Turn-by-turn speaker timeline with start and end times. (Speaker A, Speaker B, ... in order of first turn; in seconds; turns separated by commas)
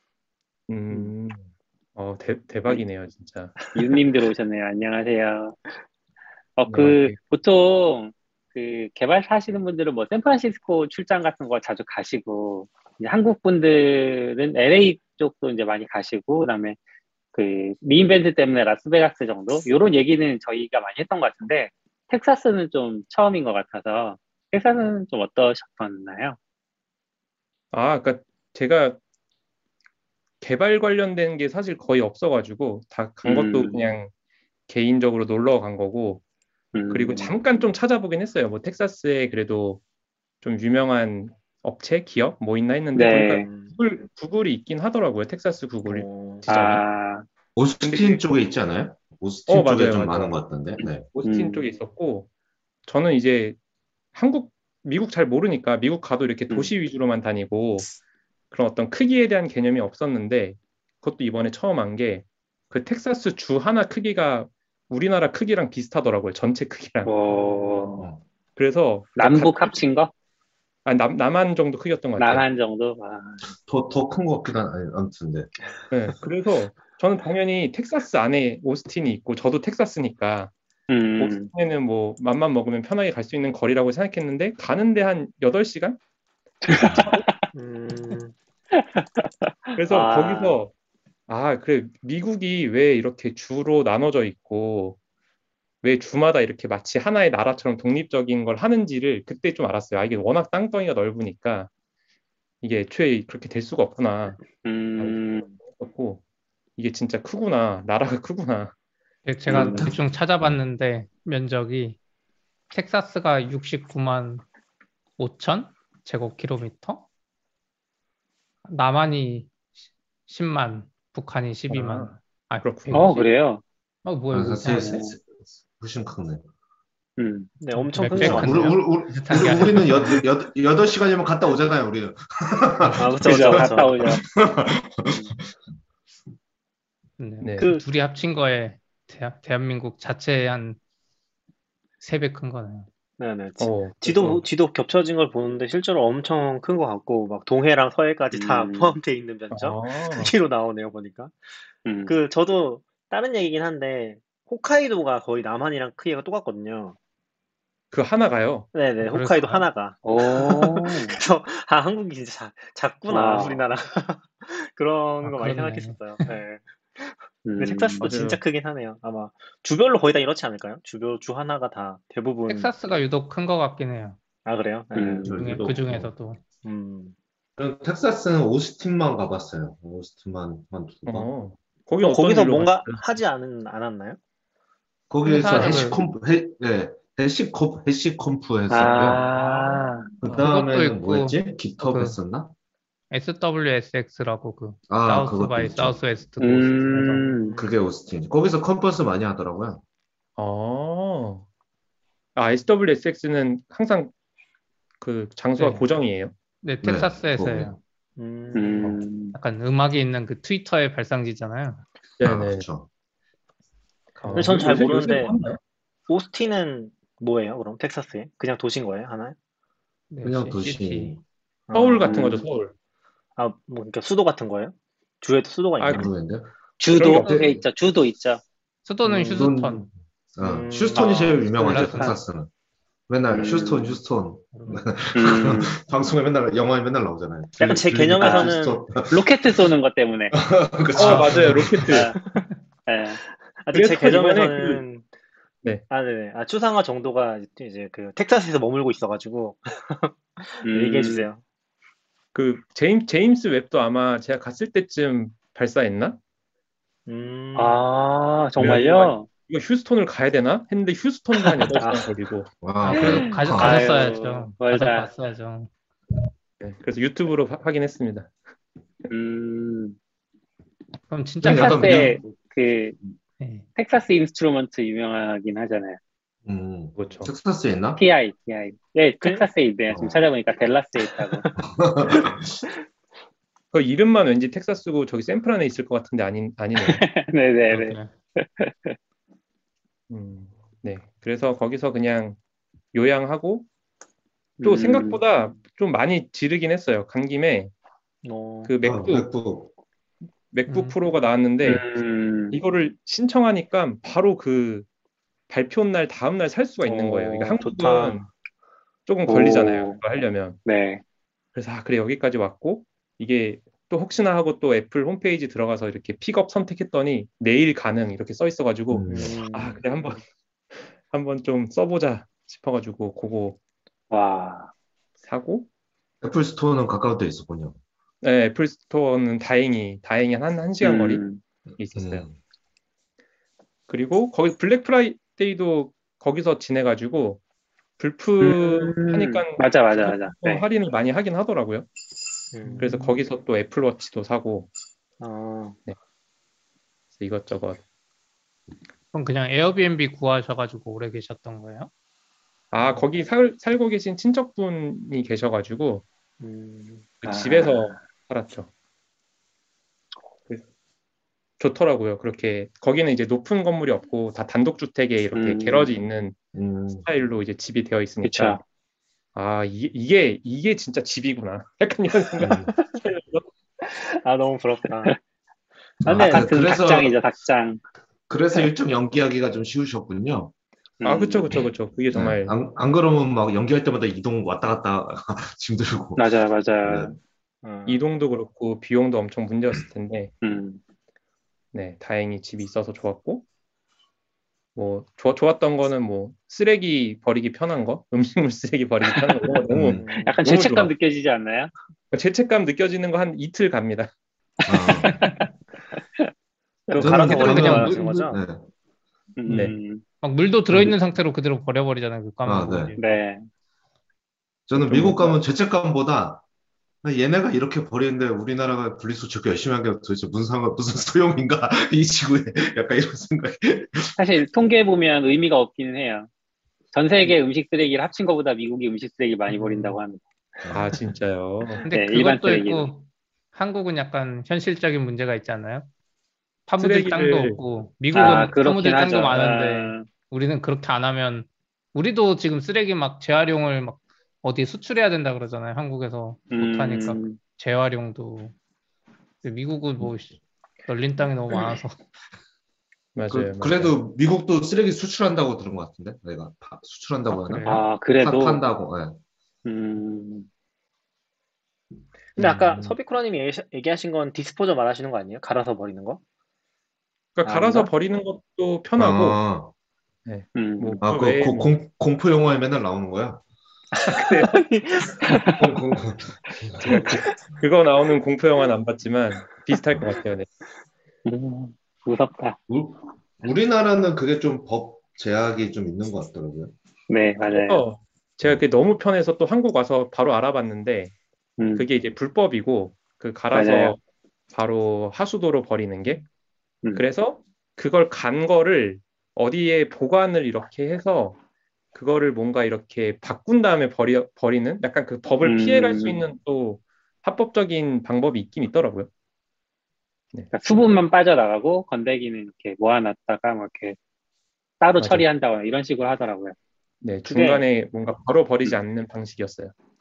Speaker A: 0.7-1.4, Speaker A: 2.0-3.6, Speaker B: 3.7-5.6, Speaker B: 6.6-16.8, Speaker A: 6.7-7.2, Speaker B: 17.3-26.4, Speaker A: 27.7-29.0, Speaker A: 30.4-34.1, Speaker B: 33.2-33.8, Speaker A: 34.7-36.2, Speaker B: 36.7-37.3, Speaker A: 36.9-39.8, Speaker A: 40.4-46.8, Speaker B: 42.9-43.5, Speaker C: 43.4-43.7, Speaker C: 45.9-46.4, Speaker B: 46.5-47.3, Speaker D: 47.6-51.1, Speaker A: 47.8-48.2, Speaker A: 49.5-50.3, Speaker A: 51.0-52.3, Speaker B: 51.2-51.6, Speaker A: 52.9-53.6, Speaker A: 54.1-57.9, Speaker A: 58.5-67.1, Speaker B: 67.1-68.1, Speaker A: 68.6-69.7, Speaker B: 69.2-70.1, Speaker A: 70.8-72.4, Speaker B: 72.2-73.5, Speaker D: 73.5-75.5, Speaker A: 75.9-80.5, Speaker B: 80.9-81.5, Speaker A: 81.2-86.0, Speaker B: 86.6-87.5, Speaker D: 86.7-87.0, Speaker A: 86.7-87.2, Speaker C: 87.5-88.3, Speaker B: 88.7-90.6, Speaker A: 89.8-90.7, Speaker A: 91.3-95.0, Speaker A: 95.8-101.7, Speaker A: 102.6-106.2, Speaker B: 104.6-105.5, Speaker A: 106.8-108.7, Speaker E: 109.3-112.0, Speaker B: 109.5-109.9, Speaker D: 109.5-110.6, Speaker E: 112.7-114.4, Speaker E: 115.2-117.1, Speaker E: 118.7-123.1, Speaker A: 121.7-123.3, Speaker B: 122.9-123.6, Speaker E: 124.0-125.0, Speaker D: 124.3-126.5, Speaker B: 124.7-125.2, Speaker B: 127.2-127.5, Speaker C: 127.6-128.7, Speaker E: 127.8-130.2, Speaker D: 128.1-135.5, Speaker C: 133.0-134.0, Speaker B: 133.2-134.2, Speaker E: 137.2-140.8, Speaker A: 137.4-137.7, Speaker E: 142.0-142.9, Speaker C: 143.2-151.4, Speaker A: 143.6-144.4, Speaker B: 148.3-149.0, Speaker A: 149.5-150.3, Speaker B: 151.8-152.1, Speaker C: 152.1-157.0, Speaker A: 157.9-158.7, Speaker C: 158.7-172.7, Speaker E: 159.0-159.7, Speaker B: 160.0-161.2, Speaker B: 163.1-163.6, Speaker E: 165.2-166.3, Speaker B: 167.4-168.1, Speaker A: 168.0-168.4, Speaker E: 172.5-174.2, Speaker C: 174.4-175.6, Speaker B: 174.9-175.3, Speaker D: 175.2-176.1, Speaker E: 175.3-176.4, Speaker C: 176.6-177.2, Speaker D: 177.6-181.3, Speaker A: 181.1-183.2, Speaker C: 182.0-184.2, Speaker D: 185.1-189.2, Speaker E: 185.2-186.0, Speaker B: 188.7-190.1, Speaker D: 190.2-192.5, Speaker E: 190.2-192.2, Speaker E: 193.1-197.3, Speaker D: 194.9-196.0, Speaker B: 196.4-197.5, Speaker C: 197.4-197.8, Speaker D: 197.6-199.8, Speaker A: 200.4-201.4, Speaker A: 202.4-204.1, Speaker A: 205.0-206.3, Speaker E: 205.6-205.9, Speaker E: 206.6-207.8, Speaker D: 206.8-207.7, Speaker C: 208.2-209.0, Speaker B: 208.5-209.4, Speaker E: 209.3-211.8, Speaker A: 212.2-212.7, Speaker D: 212.2-212.9, Speaker A: 214.2-215.6, Speaker E: 214.3-214.7, Speaker D: 214.3-214.9, Speaker C: 214.3-215.3, Speaker C: 216.1-219.4, Speaker E: 220.1-221.1, Speaker D: 220.2-221.2, Speaker C: 221.7-222.5, Speaker A: 221.7-222.7, Speaker C: 223.4-226.1, Speaker A: 225.8-226.1, Speaker D: 225.9-226.5, Speaker B: 226.8-228.4, Speaker A: 226.9-227.3, Speaker D: 227.2-227.6, Speaker E: 228.9-229.8, Speaker D: 229.1-232.5, Speaker C: 229.1-229.5, Speaker C: 230.4-232.1, Speaker E: 231.4-232.2, Speaker D: 233.1-239.3, Speaker B: 233.3-234.0, Speaker C: 234.6-234.9, Speaker B: 235.2-235.8, Speaker C: 237.6-238.9, Speaker B: 238.2-238.5, Speaker B: 239.1-240.4, Speaker D: 240.3-241.9, Speaker E: 241.0-241.8, Speaker A: 241.0-242.1, Speaker B: 241.9-242.2, Speaker C: 242.1-242.4, Speaker B: 242.9-243.2, Speaker C: 243.5-245.1, Speaker A: 243.7-244.8, Speaker C: 245.9-251.4, Speaker B: 250.7-251.3, Speaker A: 252.3-256.2, Speaker C: 257.1-257.9, Speaker B: 257.6-259.3, Speaker A: 258.6-262.5, Speaker C: 261.7-262.1, Speaker D: 262.6-264.1, Speaker E: 262.9-265.7, Speaker B: 262.9-265.1, Speaker A: 266.6-268.3, Speaker B: 269.1-270.0, Speaker E: 271.1-272.2, Speaker D: 271.4-272.2, Speaker B: 271.5-273.0, Speaker E: 273.4-273.7, Speaker B: 273.8-276.0, Speaker D: 276.4-278.0, Speaker A: 277.0-277.3, Speaker B: 278.0-281.4, Speaker D: 279.9-280.3, Speaker C: 281.0-281.6, Speaker D: 281.6-282.6, Speaker A: 283.7-287.0, Speaker B: 286.8-289.0, Speaker E: 287.7-288.1, Speaker A: 290.1-292.4, Speaker A: 292.9-293.7, Speaker B: 294.6-295.2, Speaker A: 294.6-297.7, Speaker C: 298.2-298.8, Speaker A: 298.7-299.3, Speaker D: 298.8-299.7, Speaker A: 300.5-301.9, Speaker E: 300.7-301.0, Speaker B: 301.6-302.6, Speaker A: 302.5-304.9, Speaker A: 305.5-308.3, Speaker C: 306.8-308.3, Speaker A: 309.1-310.6, Speaker B: 309.3-310.0, Speaker B: 310.7-311.0, Speaker A: 311.6-320.2, Speaker D: 318.9-319.4, Speaker C: 319.1-319.8, Speaker A: 320.8-323.6, Speaker B: 324.1-324.7, Speaker A: 325.2-325.7, Speaker D: 326.2-327.8, Speaker A: 328.2-331.2, Speaker B: 330.8-331.4, Speaker A: 331.8-332.3, Speaker D: 331.9-332.4, Speaker A: 333.9-337.4, Speaker A: 338.0-341.9, Speaker B: 338.4-340.6, Speaker C: 342.5-343.2, Speaker A: 342.7-344.7, Speaker C: 345.2-345.8, Speaker A: 347.1-347.8, Speaker E: 349.1-351.9, Speaker A: 352.7-356.1, Speaker C: 356.4-357.1, Speaker A: 357.2-358.7, Speaker B: 357.2-358.0, Speaker A: 361.6-366.4, Speaker B: 365.3-365.9, Speaker D: 366.6-367.1, Speaker A: 367.0-368.6, Speaker B: 368.2-368.6, Speaker A: 369.4-373.5, Speaker D: 372.4-372.7, Speaker C: 373.9-375.2, Speaker D: 376.0-377.2, Speaker C: 376.1-376.5, Speaker B: 376.2-377.8, Speaker D: 378.3-380.5, Speaker B: 381.0-381.4, Speaker A: 381.1-382.5, Speaker D: 381.1-386.3, Speaker B: 386.2-387.2, Speaker D: 386.8-387.2, Speaker C: 387.6-388.0, Speaker A: 387.9-390.3, Speaker B: 390.4-390.8, Speaker A: 391.7-393.5, Speaker A: 394.8-400.0, Speaker B: 399.0-401.7, Speaker D: 399.7-400.9, Speaker C: 399.9-400.4, Speaker A: 402.1-404.1, Speaker D: 404.7-405.2, Speaker E: 405.0-405.5, Speaker C: 406.9-408.4, Speaker D: 407.0-408.7, Speaker E: 407.0-407.9, Speaker B: 409.4-410.0, Speaker A: 409.5-409.8, Speaker E: 410.2-413.2, Speaker D: 412.4-412.9, Speaker B: 413.0-413.5, Speaker D: 414.7-416.4, Speaker A: 414.8-415.4, Speaker D: 417.0-424.2, Speaker B: 424.2-426.3, Speaker B: 426.9-430.2, Speaker E: 429.5-430.0, Speaker D: 430.7-431.1, Speaker A: 430.7-431.9, Speaker E: 431.9-435.9, Speaker B: 431.9-432.9, Speaker E: 436.7-448.6, Speaker A: 436.8-437.6, Speaker B: 438.1-440.1, Speaker B: 446.5-447.4, Speaker E: 449.4-452.0, Speaker A: 453.1-453.9, Speaker D: 453.3-459.2, Speaker E: 457.3-457.8, Speaker B: 457.6-458.6, Speaker B: 459.6-460.5, Speaker D: 462.4-463.0, Speaker C: 462.4-466.2, Speaker A: 467.4-469.4, Speaker C: 467.4-467.9, Speaker D: 469.0-469.7, Speaker A: 470.3-471.7, Speaker B: 470.6-471.0, Speaker D: 471.0-473.4, Speaker C: 473.9-475.6, Speaker A: 474.1-474.5, Speaker D: 475.5-477.2, Speaker A: 476.8-480.5, Speaker B: 481.2-482.6, Speaker D: 482.7-486.7, Speaker B: 487.1-487.8, Speaker A: 487.5-491.1, Speaker B: 491.6-491.9, Speaker A: 491.8-496.3, Speaker B: 493.5-494.0, Speaker A: 496.9-501.4, Speaker A: 501.9-509.1, Speaker B: 505.4-506.2, Speaker A: 510.3-510.8, Speaker B: 510.5-514.0, Speaker B: 514.8-516.6, Speaker A: 515.0-515.2, Speaker A: 517.0-519.7, Speaker C: 517.3-517.7